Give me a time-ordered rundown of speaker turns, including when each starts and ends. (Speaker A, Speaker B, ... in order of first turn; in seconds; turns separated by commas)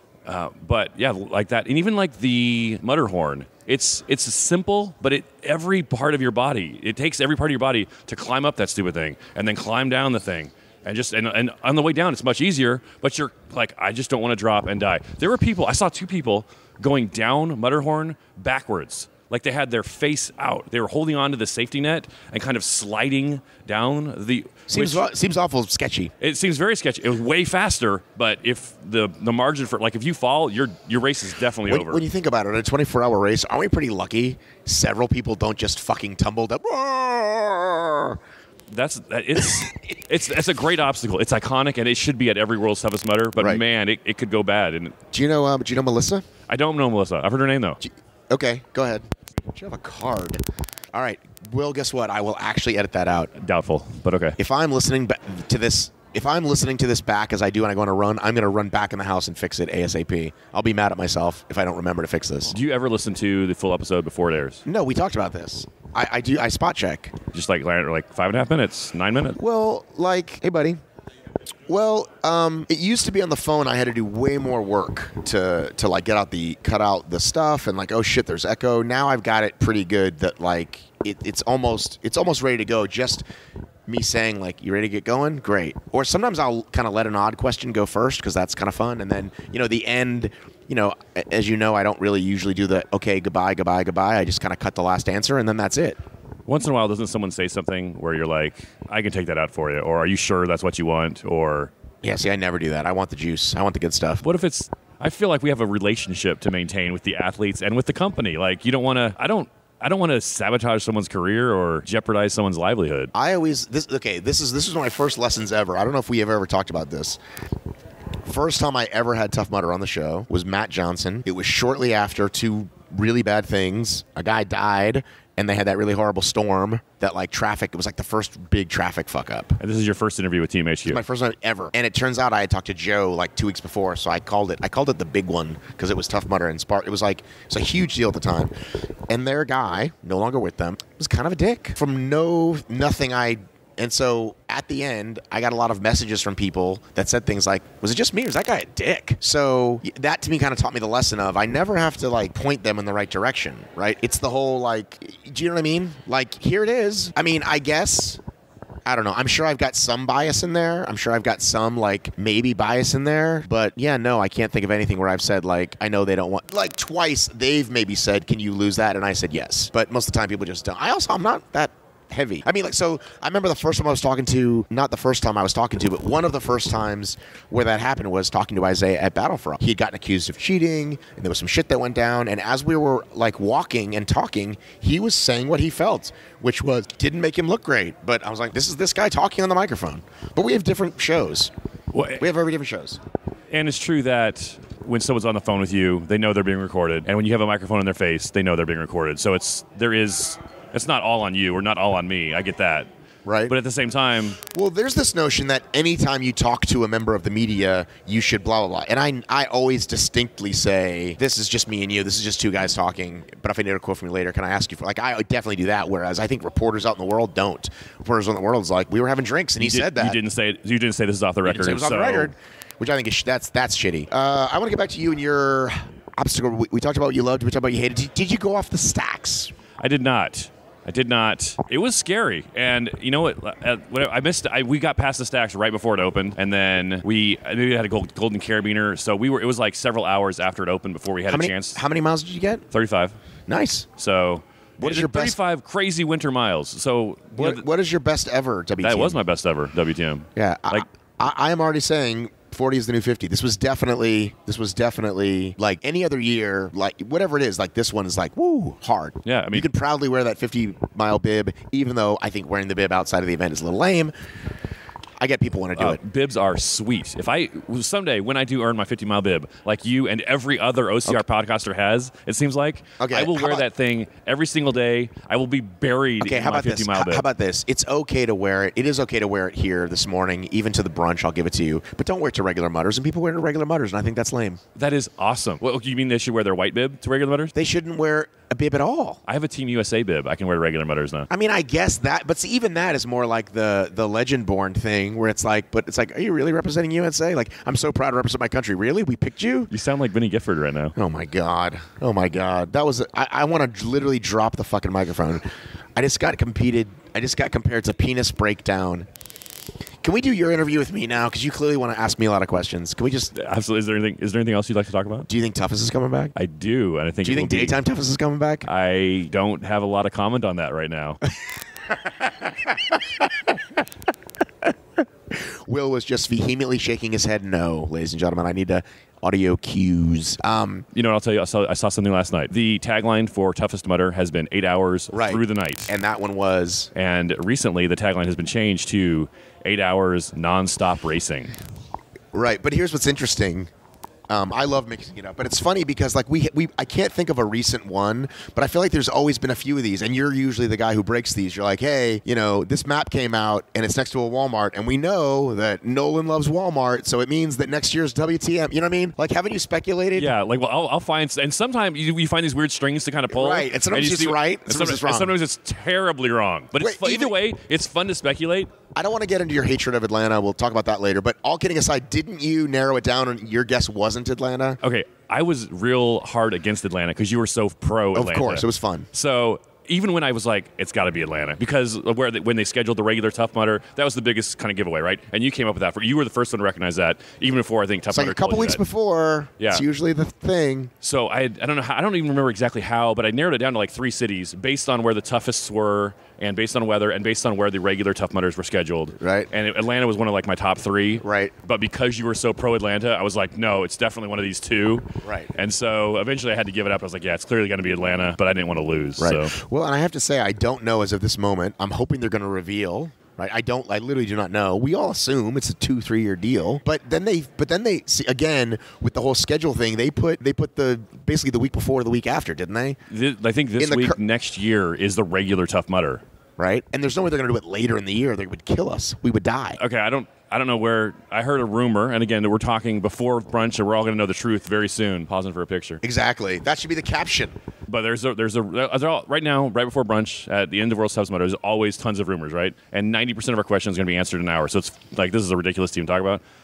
Speaker A: 0.3-25.1, Speaker B: 24.7-26.1, Speaker A: 26.2-32.0, Speaker B: 31.7-38.2, Speaker A: 38.7-45.0, Speaker B: 39.4-40.0, Speaker B: 45.1-46.2, Speaker A: 46.5-47.8, Speaker B: 47.8-50.4, Speaker B: 50.9-53.3, Speaker A: 53.4-54.4, Speaker B: 54.4-62.6, Speaker A: 62.5-64.6, Speaker B: 64.7-67.2, Speaker A: 67.3-69.4, Speaker B: 69.4-70.8, Speaker B: 71.7-83.3, Speaker B: 83.9-96.0, Speaker A: 96.5-101.7, Speaker B: 102.0-104.2, Speaker A: 104.2-113.1, Speaker B: 113.1-117.2, Speaker B: 118.3-129.6, Speaker A: 129.6-131.0, Speaker B: 130.8-138.6, Speaker B: 139.1-158.2, Speaker B: 158.9-191.5, Speaker A: 191.9-192.3, Speaker B: 192.2-193.0, Speaker A: 193.5-202.9, Speaker B: 203.2-203.5, Speaker A: 203.5-204.4, Speaker B: 204.5-220.2, Speaker A: 219.6-222.3, Speaker B: 221.4-229.5, Speaker A: 229.8-241.8, Speaker B: 241.3-242.6, Speaker A: 242.7-243.2, Speaker B: 243.5-243.9, Speaker A: 244.0-247.7, Speaker B: 244.8-245.4, Speaker B: 247.3-249.2, Speaker A: 248.8-250.9, Speaker B: 250.4-264.1, Speaker A: 259.2-259.7, Speaker B: 265.2-266.0, Speaker A: 265.8-277.3, Speaker B: 273.0-273.7, Speaker B: 276.2-284.6, Speaker A: 284.8-287.6, Speaker B: 287.5-289.2, Speaker A: 289.3-291.3, Speaker B: 291.3-299.7, Speaker A: 299.7-300.9, Speaker B: 301.0-309.1, Speaker B: 310.0-313.3, Speaker A: 313.3-315.3, Speaker B: 315.3-316.3, Speaker A: 316.4-317.8, Speaker B: 317.2-318.7, Speaker A: 318.6-321.2, Speaker B: 321.9-323.3, Speaker B: 325.3-330.9, Speaker A: 330.9-335.9, Speaker B: 335.1-336.9, Speaker A: 336.9-341.5, Speaker B: 342.3-343.7, Speaker B: 344.3-360.3, Speaker A: 360.1-368.8, Speaker B: 363.3-365.4, Speaker B: 366.8-367.4, Speaker B: 368.9-374.8, Speaker A: 374.8-388.8, Speaker B: 378.1-379.1, Speaker B: 388.1-390.9, Speaker A: 389.6-389.9, Speaker A: 391.0-409.5, Speaker B: 399.2-399.5, Speaker B: 401.2-401.5, Speaker B: 405.2-405.5, Speaker B: 409.2-423.0, Speaker A: 423.1-426.2, Speaker B: 423.8-424.2, Speaker B: 426.6-429.8, Speaker A: 429.8-436.0, Speaker B: 436.0-437.6, Speaker A: 437.9-446.4